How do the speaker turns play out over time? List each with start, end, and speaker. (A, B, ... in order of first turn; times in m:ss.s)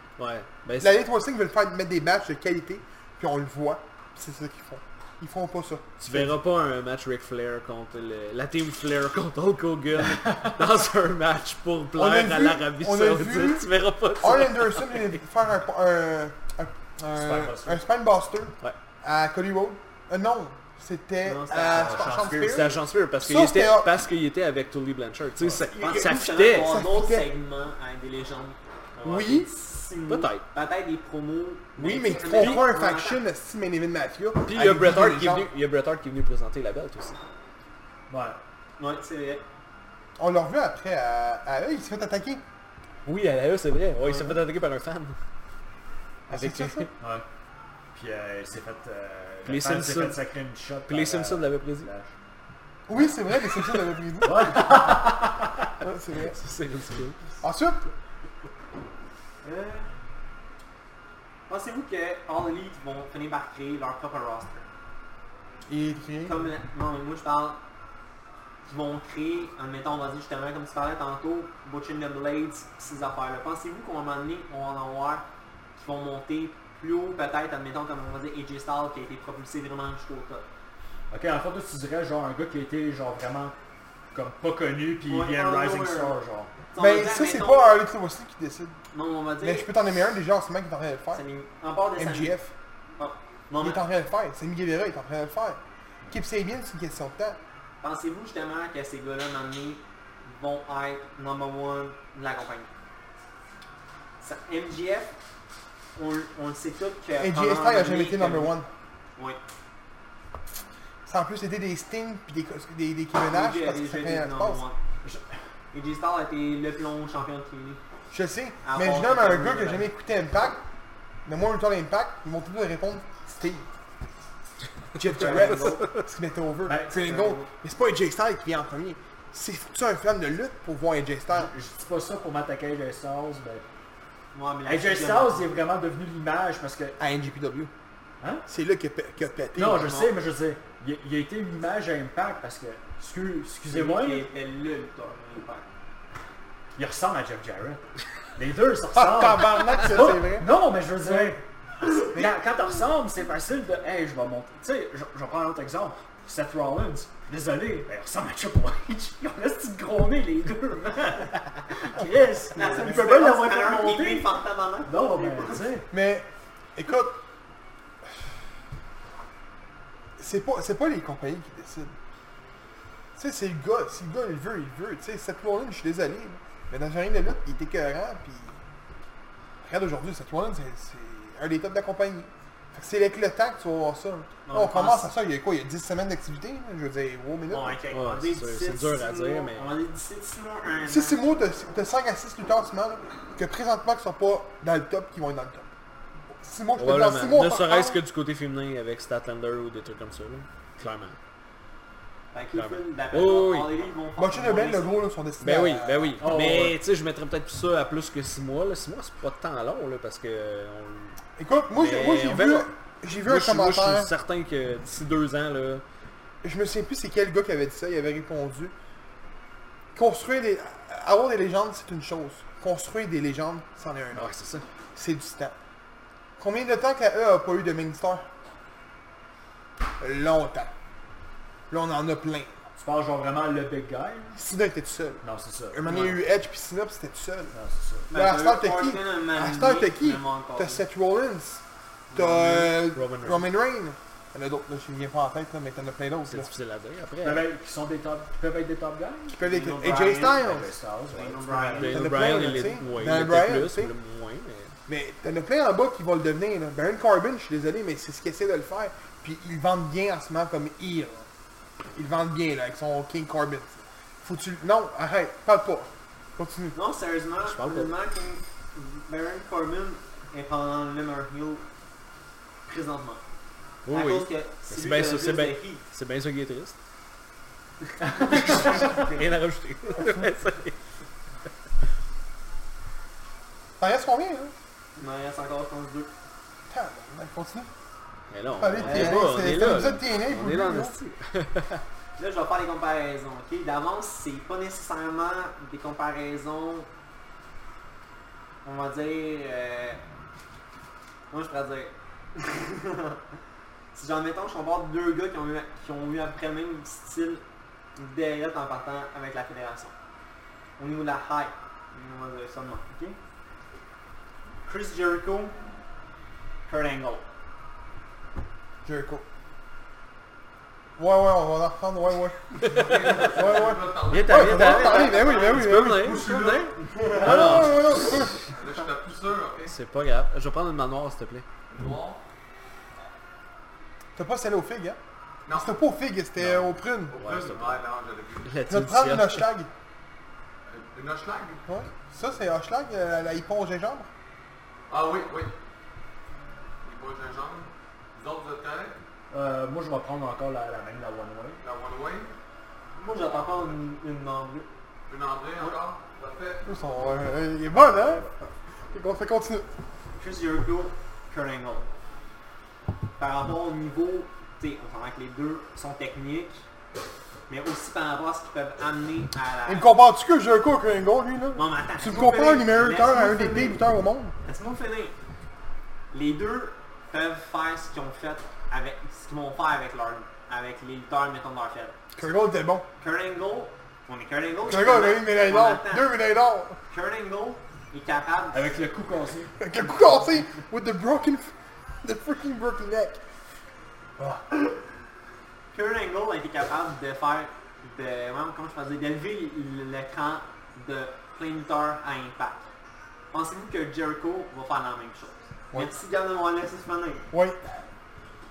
0:00.2-0:01.0 A
0:00.8-0:06.4 B
0:06.0-0:15.1 A
0:12.0-0:23.9 B
0:17.2-0:17.8 C
0:21.2-0:22.3 D
0:21.7-0:22.7 C
0:22.3-0:26.7 A
0:25.7-0:27.3 B
0:25.8-0:33.2 D
0:29.0-0:29.5 B
0:30.1-0:30.4 A
0:31.8-0:35.5 B
0:32.3-0:32.7 A
0:34.4-0:37.2 A
0:38.1-0:38.4 C
0:38.8-0:39.4 D
0:40.2-0:42.4 B
0:43.0-0:45.2 A
0:44.1-0:44.4 D
0:46.3-0:46.9 B
0:46.3-0:46.9 A
0:47.0-0:47.2 C
0:47.9-0:52.1 C
0:49.4-0:50.2 A
0:50.9-0:51.9 A
0:52.9-0:54.8 B
0:54.2-0:55.7 C
0:54.5-0:55.2 A
0:55.8-0:56.4 B
0:56.1-0:57.2 A
0:57.4-0:57.9 B
0:59.4-0:59.9 D
1:01.5-1:04.7 D
1:05.7-1:06.5 B
1:06.3-1:07.6 D
1:08.7-1:15.2 D
1:15.8-1:20.4 D
1:21.1-1:23.6 C
1:24.1-1:26.5 C
1:25.1-1:26.2 D
1:26.7-1:27.8 D
1:26.8-1:28.8 B
1:28.9-1:29.7 D
1:29.4-1:31.2 B
1:31.1-1:32.4 D
1:32.0-1:32.5 B
1:33.0-1:33.8 D
1:33.6-1:35.6 B
1:36.1-1:37.4 B
1:37.8-1:42.7 D
1:44.2-1:45.2 D
1:46.0-1:48.6 D
1:47.2-1:48.7 B
1:51.1-1:54.6 B
1:53.2-1:54.8 D
1:55.7-1:57.8 D
1:58.1-2:00.6 B
1:58.6-1:59.9 D
2:01.3-2:03.7 B
2:05.0-2:11.5 B
2:05.0-2:05.9 D
2:06.7-2:07.2 C
2:07.0-2:07.5 D
2:11.3-2:13.6 C
2:14.3-2:15.5 D
2:14.7-2:17.0 C
2:17.0-2:17.7 B
2:18.2-2:18.4 C
2:18.5-2:20.0 B
2:19.6-2:24.3 C
2:19.8-2:20.1 D
2:23.7-2:25.7 D
2:26.8-2:27.8 C
2:28.4-2:44.4 C
2:28.9-2:30.5 B
2:31.0-2:31.4 B
2:42.6-2:45.7 D
2:42.6-2:43.0 B
2:44.9-2:45.9 C
2:45.9-2:47.2 B
2:50.2-2:52.0 B
2:53.2-2:58.6 B
2:59.6-3:07.8 B
3:04.5-3:05.1 D
3:07.5-3:11.2 D
3:07.9-3:09.7 A
3:10.9-3:15.7 B
3:16.4-3:18.0 B
3:16.8-3:21.2 A
3:22.3-3:24.9 D
3:22.6-3:23.7 A
3:24.2-3:26.2 B
3:25.4-3:31.2 A
3:26.2-3:26.8 C
3:31.4-3:34.1 B
3:31.8-3:32.7 A
3:33.2-3:35.8 A
3:36.4-3:38.7 B
3:40.0-3:44.3 B
3:44.1-3:44.6 A
3:45.0-3:45.6 B
3:46.4-3:48.3 B
3:50.0-3:50.7 B
3:51.7-3:52.5 B
3:52.8-3:54.4 C
3:54.4-3:57.6 B
3:55.2-3:56.2 C
3:57.5-3:58.1 C
3:58.1-4:00.8 D
3:58.1-4:06.5 B
4:02.2-4:03.5 A
4:06.3-4:07.5 A
4:07.2-4:12.4 C
4:09.3-4:10.7 B
4:09.4-4:10.6 D
4:11.1-4:12.5 D
4:11.7-4:14.8 A
4:11.8-4:13.9 B
4:14.9-4:21.3 B
4:21.9-4:26.8 B
4:26.7-4:31.6 D
4:27.4-4:27.9 A
4:32.7-4:33.2 D
4:33.9-4:36.8 A
4:33.9-4:35.8 D
4:38.1-4:40.8 A
4:43.8-4:44.5 B
4:45.0-4:46.1 D
4:46.7-4:47.7 B
4:48.3-4:51.8 A
4:48.6-4:51.0 B
4:48.8-4:49.3 D
4:52.2-4:56.9 D
4:58.6-5:00.0 D
5:01.3-5:03.2 D
5:03.9-5:07.4 D
5:08.0-5:09.9 D
5:10.8-5:13.2 D
5:14.6-5:15.6 D
5:16.7-5:17.2 D
5:18.8-5:19.2 B
5:21.0-5:22.4 B
5:22.6-5:23.2 A
5:22.6-5:26.7 E
5:23.2-5:26.4 B
5:24.1-5:27.9 A
5:24.8-5:25.5 D
5:26.9-5:27.5 D
5:27.2-5:28.4 B
5:27.3-5:27.6 E
5:28.4-5:29.7 E
5:29.7-5:31.4 A
5:31.7-5:32.2 E
5:34.2-5:35.0 B
5:35.5-5:35.8 E
5:35.5-5:37.2 B
5:36.4-5:37.8 A
5:37.1-5:38.6 E
5:38.4-5:39.5 A
5:38.7-5:39.7 B
5:40.7-5:41.6 E
5:41.7-5:44.1 B
5:44.9-5:45.5 E
5:46.8-5:49.0 E
5:49.3-5:51.6 C
5:51.6-5:52.3 E
5:53.0-5:54.7 D
5:53.3-5:53.6 E
5:55.1-5:56.7 E
5:56.7-5:59.7 B
6:00.2-6:01.9 D
6:03.2-6:06.6 D
6:07.5-6:09.9 D
6:09.7-6:14.3 B
6:11.6-6:13.8 D
6:14.4-6:15.2 D
6:16.1-6:22.0 D
6:22.2-6:22.9 B
6:23.0-6:26.2 D
6:24.6-6:26.8 B
6:26.9-6:28.8 D
6:28.5-6:29.6 C
6:29.6-6:33.2 B
6:34.2-6:34.4 B
6:35.7-6:42.7 D
6:43.3-6:47.3 D
6:47.3-6:47.6 B